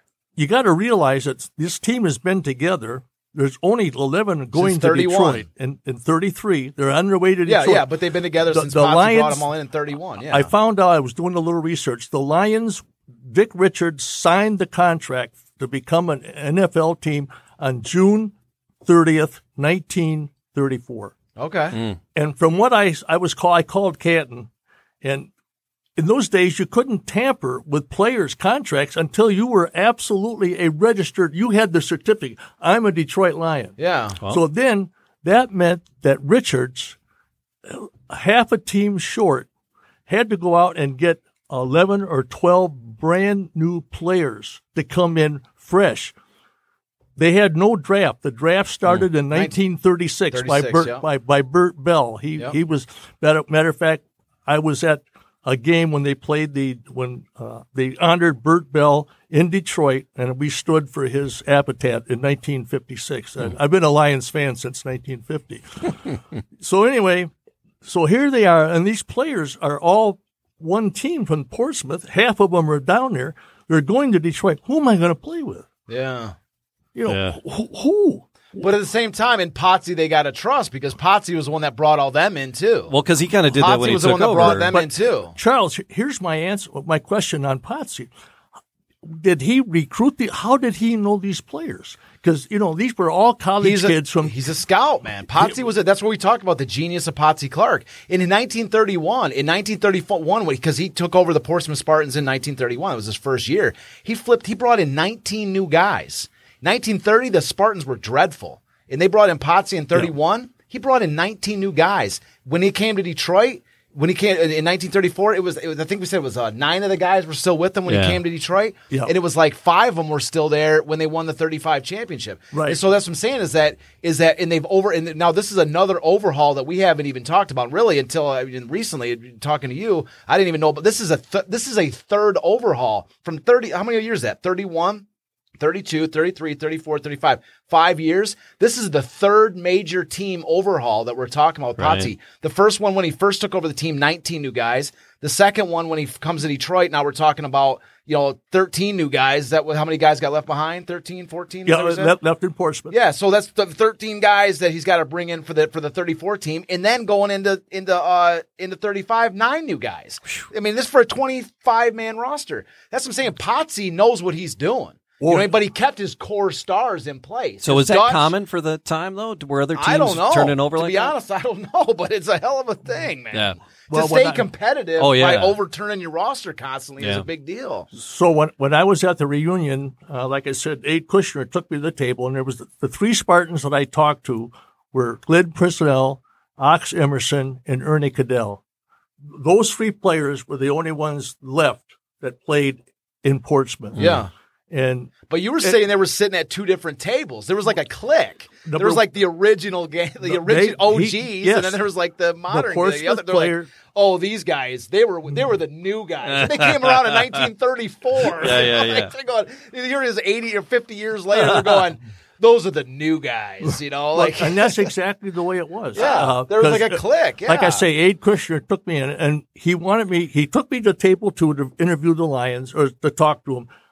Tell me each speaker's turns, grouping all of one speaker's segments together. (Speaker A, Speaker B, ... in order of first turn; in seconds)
Speaker A: 0.4-7.9, 8.5-9.5, 10.3-18.3, 18.8-21.1, 22.1-24.5, 25.0-25.3, 26.0-33.8, 34.3-37.0, 37.6-39.5, 40.1-46.1, 47.2-66.0, 66.6-67.3, 67.8-75.7, 76.9-78.3, 84.4-88.1, 89.0-94.4, 122.5-122.8, 151.7-152.9, 165.2-165.5, 173.9-174.5, 177.9-188.6, 189.3-194.0, 194.7-195.8, 198.6-199.1, 200.2-201.8, 202.5-203.7, 214.1-223.7
Speaker B: 4.5-5.5, 7.4-10.5, 21.4-21.8, 33.8-34.2, 49.3-49.6, 50.3-51.1, 75.9-76.3, 78.6-82.9, 83.5-85.4, 93.6-135.1, 135.6-152.1, 152.9-168.3, 169.7-177.9, 194.0-194.3, 195.3-214.9, 215.9-217.9
Speaker C: 21.7-22.0, 77.1-77.4, 82.9-84.7, 117.9-118.2, 141.8-142.1, 167.6-171.1, 173.3-173.6, 175.0-175.6, 177.0-177.3, 193.9-194.2, 206.2-207.4, 208.2-209.1